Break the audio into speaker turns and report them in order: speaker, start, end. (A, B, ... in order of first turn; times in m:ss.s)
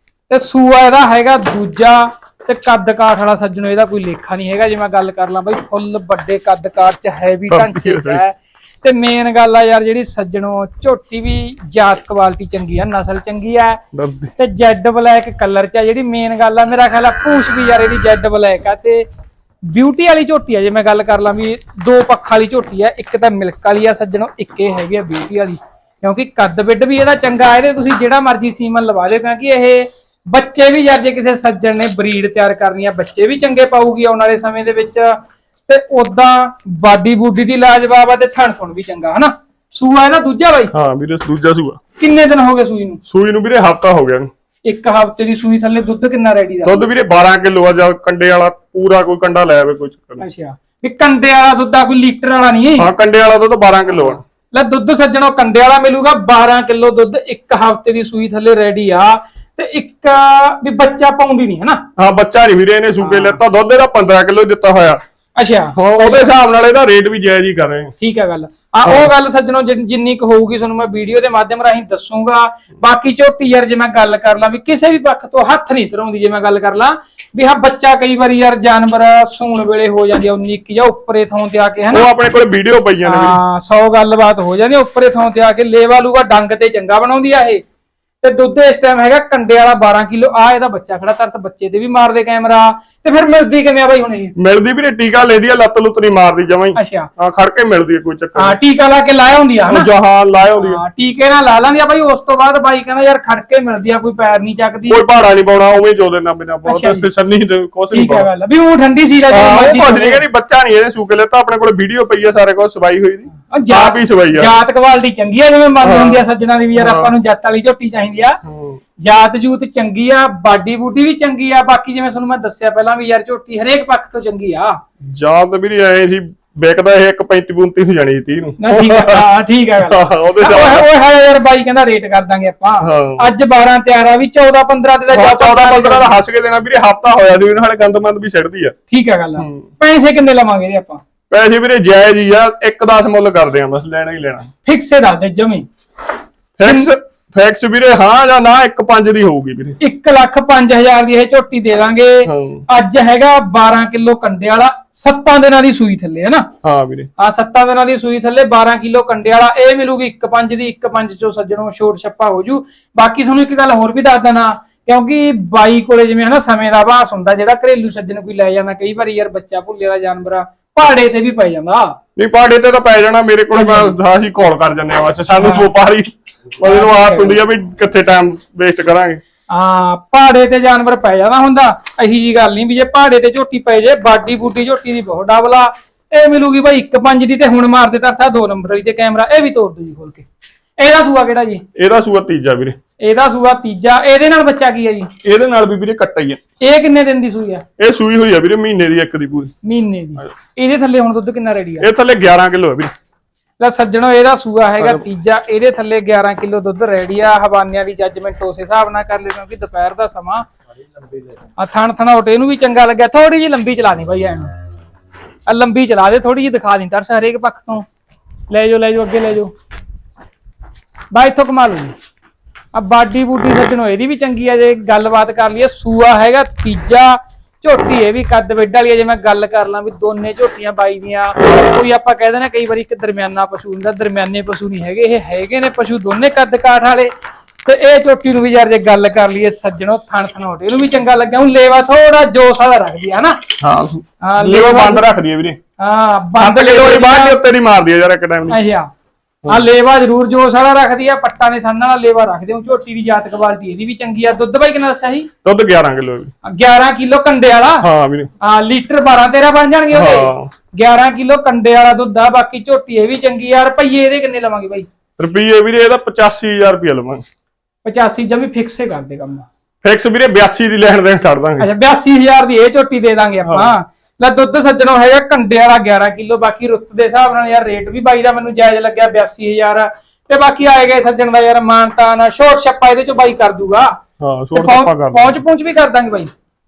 0:00.3-0:13.8 A
0:07.5-0:08.2 B
0:13.9-0:14.3 B
0:14.4-0:19.1 A
0:19.7-0:40.7 A
0:40.7-0:41.8 B
0:42.0-0:43.0 A
0:43.1-0:44.3 B
0:44.6-0:46.8 A
0:46.6-0:50.2 B
0:50.2-0:52.9 A
0:52.8-0:54.2 B
0:54.5-1:01.8 A
1:02.0-1:05.0 B
1:03.0-1:03.4 A
1:05.4-1:06.3 A
1:05.8-1:07.9 B
1:08.0-1:22.1 A
1:21.9-1:23.4 B
1:23.0-1:27.6 A
1:28.2-1:34.3 A
1:34.4-1:38.6 B
1:36.8-1:37.1 A
1:38.4-1:39.9 A
1:39.7-1:40.8 B
1:40.5-1:45.0 A
1:44.9-1:48.3 B
1:46.7-1:47.1 A
1:47.9-1:50.2 A
1:49.3-1:54.5 B
1:53.5-1:58.4 A
1:55.8-1:56.2 B
1:56.8-1:57.1 B
1:58.4-1:58.8 B
1:59.0-2:04.8 A
2:05.0-2:09.3 B
2:08.6-2:16.2 A
2:09.8-2:10.9 B
2:12.8-2:13.3 B
2:15.1-2:18.8 B
2:18.9-2:21.0 A
2:19.4-2:19.7 B
2:21.3-2:24.5 B
2:24.6-2:25.7 A
2:26.6-2:29.8 B
2:26.6-2:26.9 A
2:29.8-2:36.5 A
2:32.2-2:32.6 B
2:36.6-2:37.1 B
2:37.2-2:51.9 A
2:52.2-2:59.2 B
2:53.5-2:54.0 A
2:55.4-2:55.7 A
2:56.6-2:57.4 A
2:59.5-3:10.3 A
3:10.8-3:11.6 A
3:11.8-3:12.8 B
3:13.0-3:15.1 A
3:15.2-3:16.4 B
3:16.6-3:17.6 A
3:17.8-3:19.6 B
3:19.6-3:21.9 A
3:21.8-3:22.9 B
3:23.6-3:30.5 A
3:31.6-3:34.5 A
3:35.5-3:37.9 A
3:38.5-3:39.5 A
3:41.1-3:41.9 A
3:42.7-3:57.1 A
3:57.6-4:03.4 A
4:03.6-4:05.6 B
4:04.2-4:05.1 A
4:05.8-4:07.4 A
4:06.4-4:08.6 B
4:08.5-4:08.9 A
4:09.5-4:15.3 A
4:15.4-4:16.3 B
4:16.4-4:17.9 A
4:17.8-4:18.3 B
4:18.4-4:24.9 A
4:19.9-4:20.5 B
4:25.2-4:27.2 B
4:27.8-4:29.5 A
4:29.8-4:31.7 B
4:31.6-4:43.9 A
4:33.5-4:33.7 B
4:44.2-4:45.3 B
4:44.5-4:46.3 A